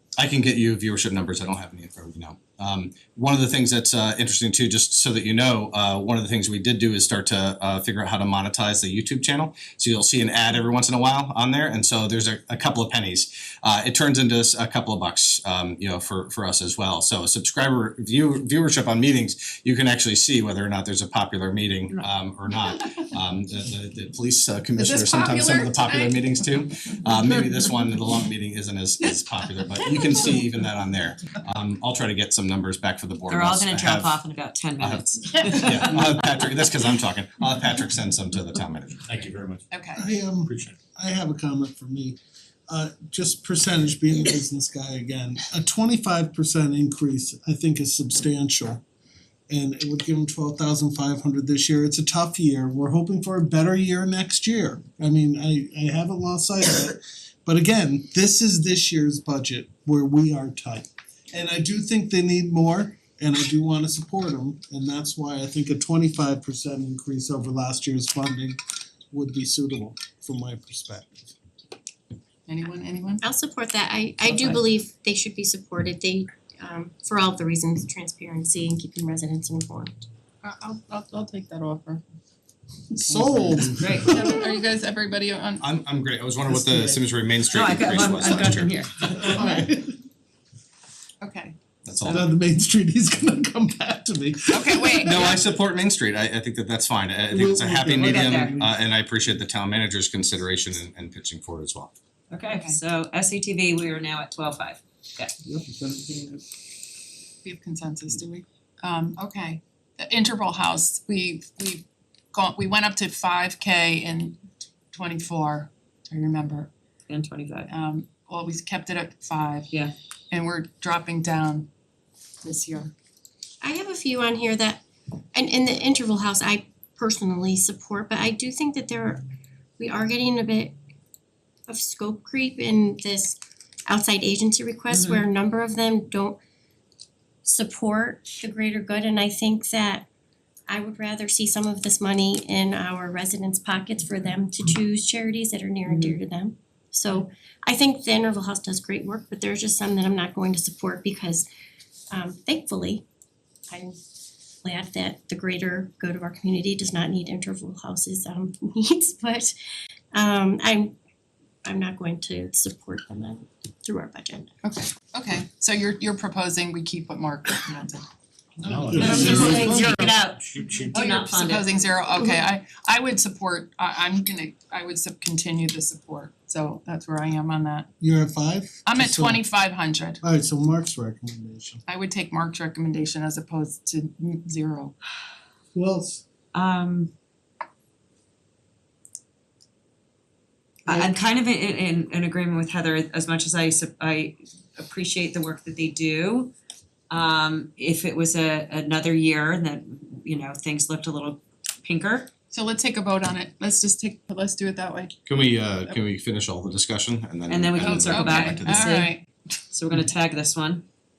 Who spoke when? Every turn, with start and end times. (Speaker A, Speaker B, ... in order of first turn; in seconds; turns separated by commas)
Speaker A: 0.2-34.2, Speaker B: 33.3-36.0, Speaker A: 34.8-39.0, Speaker C: 39.1-39.6, Speaker D: 40.0-42.2, Speaker C: 40.5-40.7, Speaker D: 42.7-48.8, Speaker D: 49.5-68.6, Speaker D: 69.1-71.3, Speaker E: 72.5-73.2, Speaker F: 73.2-80.0, Speaker E: 80.4-82.0, Speaker D: 82.9-84.4, Speaker B: 83.8-84.2, Speaker E: 84.4-85.6, Speaker A: 85.6-88.7, Speaker D: 86.5-87.0, Speaker B: 87.5-89.5, Speaker D: 89.0-89.9, Speaker A: 91.8-92.3, Speaker D: 92.0-95.4, Speaker A: 95.0-101.9, Speaker D: 97.3-98.7, Speaker B: 97.9-98.5, Speaker B: 102.3-105.3, Speaker D: 105.5-106.4, Speaker E: 107.5-108.3, Speaker E: 110.0-111.8, Speaker E: 112.3-114.2, Speaker E: 114.9-116.6, Speaker B: 117.1-117.7, Speaker E: 118.2-119.5, Speaker E: 120.3-121.6, Speaker E: 122.4-122.8, Speaker F: 123.6-129.2, Speaker F: 129.8-130.7, Speaker F: 131.7-136.4, Speaker B: 134.9-135.2, Speaker F: 137.4-140.1, Speaker F: 140.7-151.4, Speaker B: 145.8-146.2, Speaker F: 152.1-153.0, Speaker F: 153.7-153.9, Speaker F: 154.6-159.5, Speaker F: 160.1-160.9, Speaker F: 161.6-164.5, Speaker E: 164.7-167.9, Speaker C: 168.6-171.3, Speaker B: 168.7-171.8, Speaker D: 168.7-170.1, Speaker E: 172.5-177.8, Speaker D: 178.0-179.4, Speaker E: 178.9-180.2, Speaker D: 180.2-181.8, Speaker E: 182.0-184.8, Speaker D: 185.7-186.2, Speaker B: 186.5-187.1, Speaker B: 190.8-196.5, Speaker D: 190.9-191.1, Speaker B: 197.1-202.3, Speaker E: 202.7-205.0, Speaker A: 205.2-208.9, Speaker B: 207.5-209.2, Speaker B: 209.7-210.8